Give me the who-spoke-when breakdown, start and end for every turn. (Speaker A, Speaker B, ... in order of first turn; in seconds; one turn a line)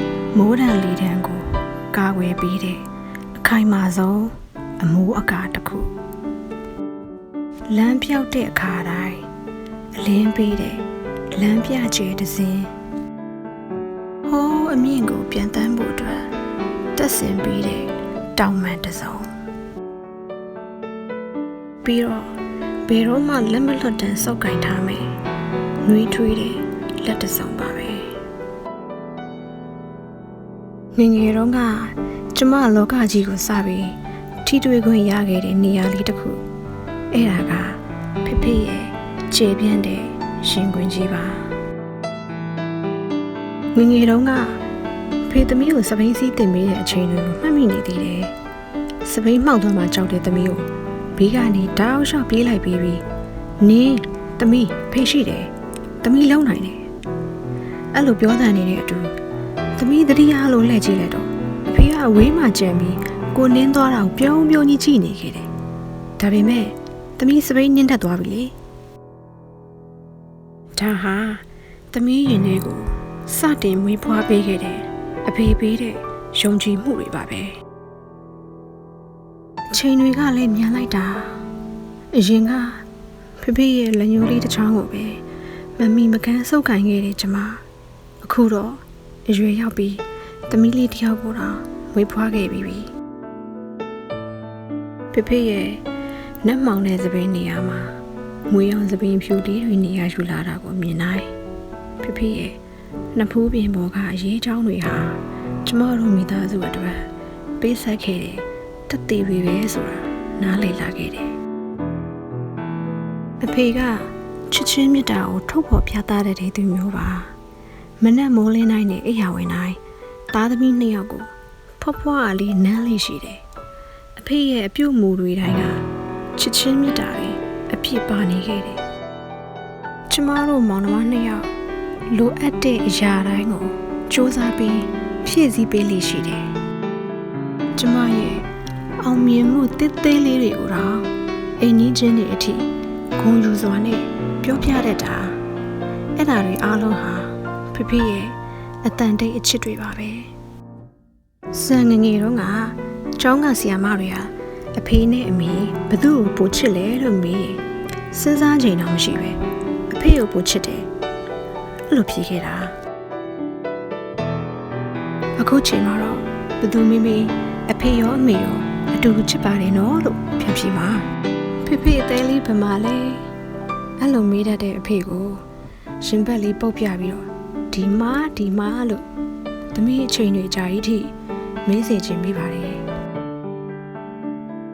Speaker A: 0.3-2.8
Speaker A: 3.4-5.9
Speaker A: 7.7-9.2
Speaker A: 10.0-12.7
Speaker A: 14.2-16.3
Speaker A: 16.9-19.3
Speaker A: 21.8-22.3
Speaker A: 22.9-25.1
Speaker A: 25.8-28.1
Speaker A: 30.9-36.4
Speaker A: 37.1-41.5
Speaker A: 43.7-44.6
Speaker A: 45.3-48.3
Speaker A: 49.0-53.0
Speaker A: 53.6-55.5
Speaker A: 56.0-56.8
Speaker A: 57.9-59.1
Speaker A: 59.8-65.5
Speaker A: 66.2-68.5
Speaker A: 70.7-77.6
Speaker A: 79.7-81.4
Speaker A: 82.1-82.8
Speaker A: 83.4-85.2
Speaker A: 85.8-87.6
Speaker A: 88.2-92.9
Speaker A: 95.1-95.8
Speaker A: 96.4-98.0
Speaker A: 98.5-101.3
Speaker A: 102.0-102.6
Speaker A: 103.1-107.1
Speaker A: 107.6-111.3
Speaker A: 113.4-117.3
Speaker A: 118.0-119.8
Speaker A: 120.3-123.4
Speaker A: 124.2-125.8
Speaker A: 126.3-128.8
Speaker A: 130.1-131.5
Speaker A: 132.1-136.5
Speaker A: 137.8-138.4
Speaker A: 139.0-145.4
Speaker A: 146.2-150.3
Speaker A: 151.5-160.9
Speaker A: 161.9-162.7
Speaker A: 165.4-171.0
Speaker A: 171.6-173.3
Speaker A: 174.0-175.4
Speaker A: 176.0-179.0
Speaker A: 179.7-181.1
Speaker A: 181.6-182.8